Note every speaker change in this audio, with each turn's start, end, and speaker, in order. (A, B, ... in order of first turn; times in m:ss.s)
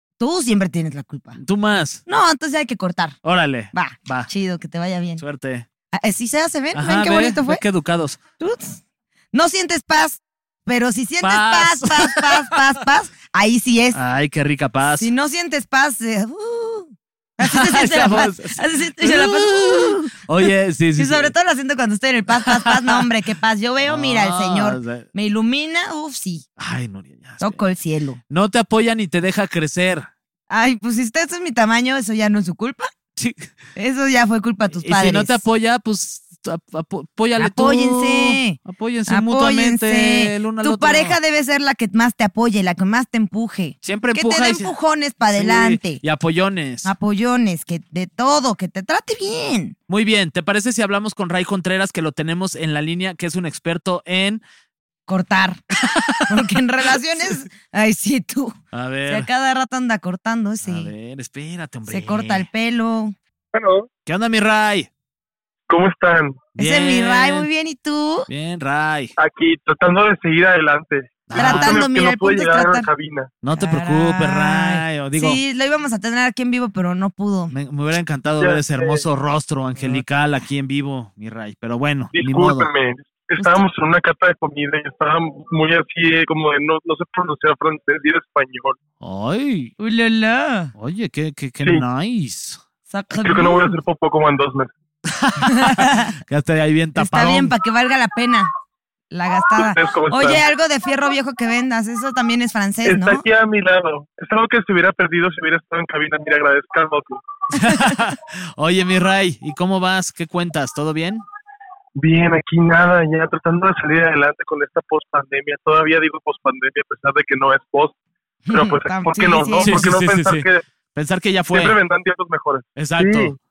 0:00.2-0:01.4 A
0:01.4-0:02.0 B
0:02.1-0:03.2 A
0:03.2-0:04.3 B
0:03.7-0:05.2 A
0:05.2-0:05.7 B
0:05.9-0:07.6 A
0:06.7-0:08.2 B
0:08.4-0:08.8 A
0:09.3-0:14.0 A
0:11.2-0:12.6 B
0:13.9-0:15.1 B
0:15.0-0:20.2 A
0:17.4-0:21.3 B
0:21.0-0:26.5 A
0:22.4-0:23.1 B
0:23.8-0:25.1 B
0:26.6-0:27.6 B
0:27.4-0:28.2 A
0:28.3-0:30.1 B
0:30.5-0:32.9 A
0:33.2-0:33.5 B
0:33.8-0:35.4 A
0:34.8-0:41.2 B
0:37.4-0:46.0 A
0:43.8-0:44.7 B
0:45.3-0:46.9 B
0:46.8-0:49.8 A
0:49.9-0:54.4 B
0:55.1-0:55.6 A
0:55.8-0:56.5 B
0:56.3-1:00.9 A
0:58.7-0:59.3 B
1:00.6-1:02.5 B
1:01.9-1:03.2 A
1:03.5-1:03.9 C
1:04.1-1:04.9 B
1:05.7-1:06.5 C
1:06.6-1:07.5 B
1:06.6-1:08.3 A
1:08.3-1:09.1 B
1:09.2-1:13.3 C
1:11.3-1:11.8 B
1:11.4-1:12.9 A
1:13.4-1:15.4 B
1:13.6-1:17.5 A
1:17.5-1:22.7 B
1:18.4-1:19.0 C
1:22.1-1:28.8 C
1:23.4-1:23.6 A
1:29.0-1:29.7 B
1:29.8-1:30.7 A
1:30.8-1:32.6 B
1:32.9-1:33.8 A
1:33.2-1:34.7 C
1:35.1-1:37.5 B
1:35.4-1:36.2 A
1:37.0-1:38.5 A
1:39.1-1:43.2 A
1:39.6-1:40.4 C
1:42.8-1:47.2 C
1:47.5-1:51.3 B
1:52.0-1:58.0 C
1:58.5-1:59.8 A
1:58.5-2:00.6 C
1:59.6-2:01.8 B
2:01.5-2:03.4 C
2:02.8-2:03.3 B